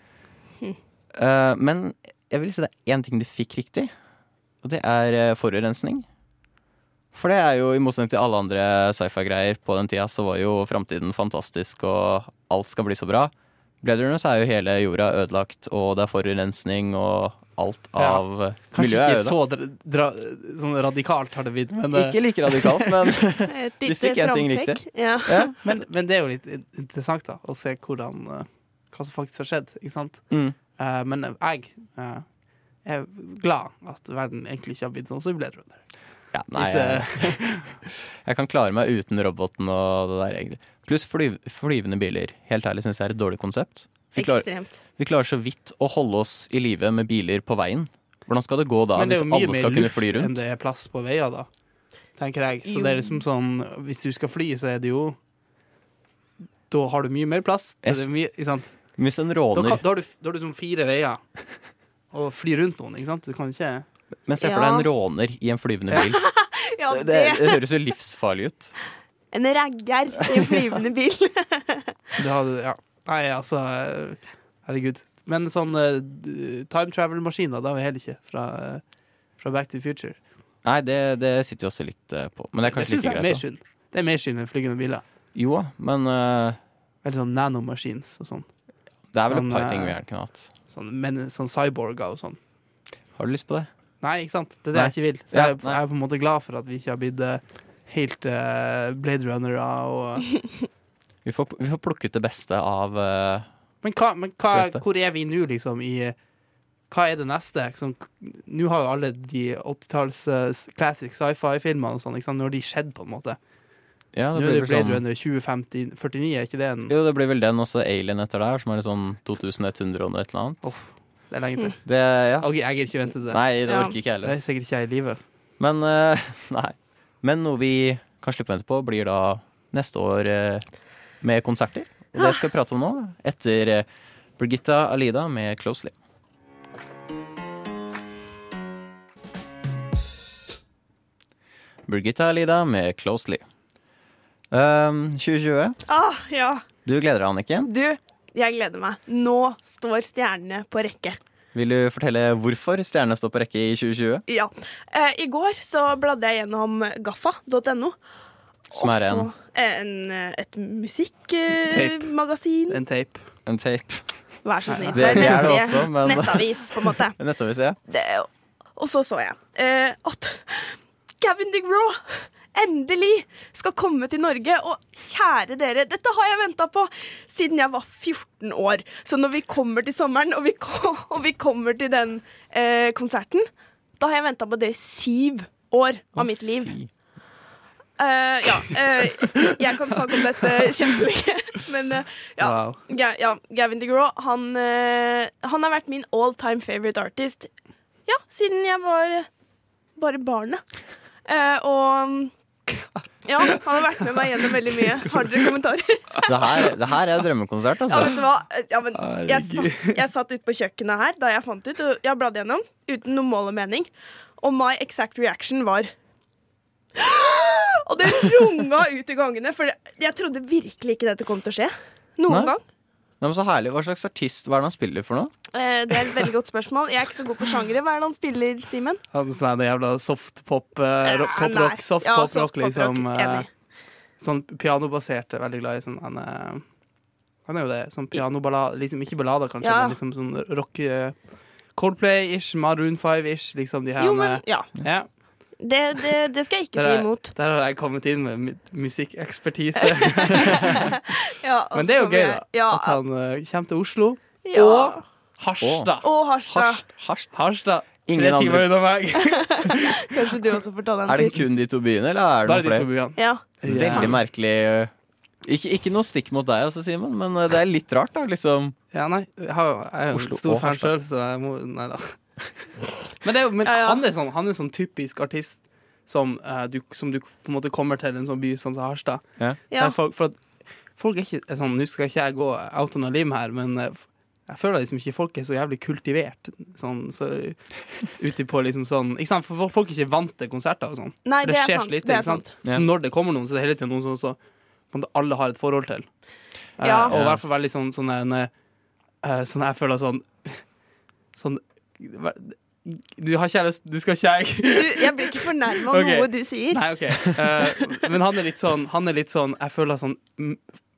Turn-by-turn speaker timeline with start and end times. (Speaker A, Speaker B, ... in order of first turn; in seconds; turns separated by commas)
Speaker A: 1.1-3.9, Speaker A: 4.6-6.0, Speaker A: 7.1-19.4, Speaker B: 18.0-23.0, Speaker A: 21.9-25.5, Speaker C: 23.5-25.5, Speaker B: 25.6-37.7, Speaker A: 30.3-30.6, Speaker A: 36.3-50.4, Speaker C: 44.1-44.8, Speaker B: 48.9-51.5, Speaker B: 52.1-55.2, Speaker C: 52.7-53.2, Speaker B: 56.7-59.0, Speaker A: 57.8-59.8, Speaker B: 59.5-63.9, Speaker A: 64.2-68.7, Speaker C: 64.4-64.9, Speaker C: 66.0-67.6, Speaker C: 69.3-71.9, Speaker B: 72.2-78.8, Speaker B: 79.4-80.2, Speaker A: 80.6-83.4, Speaker B: 82.7-85.0, Speaker A: 85.3-86.6, Speaker B: 87.0-88.5, Speaker A: 89.1-90.5, Speaker B: 89.2-90.0, Speaker B: 90.7-92.4, Speaker A: 93.1-93.7, Speaker B: 94.0-100.4, Speaker A: 94.7-95.8, Speaker A: 101.2-103.5, Speaker B: 103.8-106.2, Speaker A: 104.5-104.8, Speaker B: 106.9-113.4, Speaker A: 114.1-115.0, Speaker B: 114.3-116.9, Speaker A: 116.9-120.8, Speaker B: 120.6-121.8, Speaker A: 121.8-124.4, Speaker B: 122.4-123.4, Speaker C: 123.7-123.9, Speaker B: 124.2-125.2, Speaker A: 125.6-130.7, Speaker A: 131.2-135.9, Speaker A: 141.8-143.4, Speaker A: 144.5-145.8, Speaker C: 145.9-146.6, Speaker A: 146.8-147.7, Speaker C: 147.6-151.2, Speaker A: 151.5-154.2, Speaker C: 154.3-158.0, Speaker C: 158.7-162.8, Speaker A: 158.7-159.3, Speaker B: 161.7-162.1, Speaker B: 162.7-163.2, Speaker A: 163.4-167.8, Speaker C: 164.4-167.3, Speaker B: 164.7-165.5, Speaker C: 167.9-186.8, Speaker A: 186.2-186.9, Speaker C: 188.0-197.5, Speaker B: 192.4-192.8, Speaker C: 198.1-199.3, Speaker C: 199.9-200.6, Speaker C: 201.2-202.3, Speaker B: 202.7-205.5, Speaker C: 203.2-206.2, Speaker A: 206.2-208.2, Speaker C: 207.9-215.9, Speaker B: 208.9-209.9, Speaker C: 216.9-222.6, Speaker A: 222.3-222.5, Speaker A: 223.2-225.3, Speaker C: 225.5-229.0, Speaker B: 229.1-233.5, Speaker C: 231.0-233.5, Speaker B: 234.2-236.7, Speaker B: 237.4-245.1, Speaker C: 239.6-240.0, Speaker C: 244.0-244.7, Speaker C: 245.6-247.3, Speaker B: 246.7-251.0, Speaker C: 250.2-253.0, Speaker B: 251.7-256.1, Speaker C: 254.4-255.0, Speaker A: 255.6-255.9, Speaker C: 256.0-256.8, Speaker A: 256.5-258.9, Speaker B: 257.3-260.2, Speaker C: 259.2-261.4, Speaker A: 261.1-262.9, Speaker B: 262.4-264.1, Speaker C: 263.1-264.1, Speaker A: 263.6-264.9, Speaker A: 265.4-268.8, Speaker B: 268.9-272.3, Speaker A: 270.1-270.9, Speaker B: 273.2-298.5, Speaker C: 273.6-274.0, Speaker C: 291.2-292.5, Speaker C: 296.8-297.1, Speaker A: 297.1-297.4, Speaker B: 299.2-300.8, Speaker B: 301.3-310.7, Speaker C: 304.7-306.9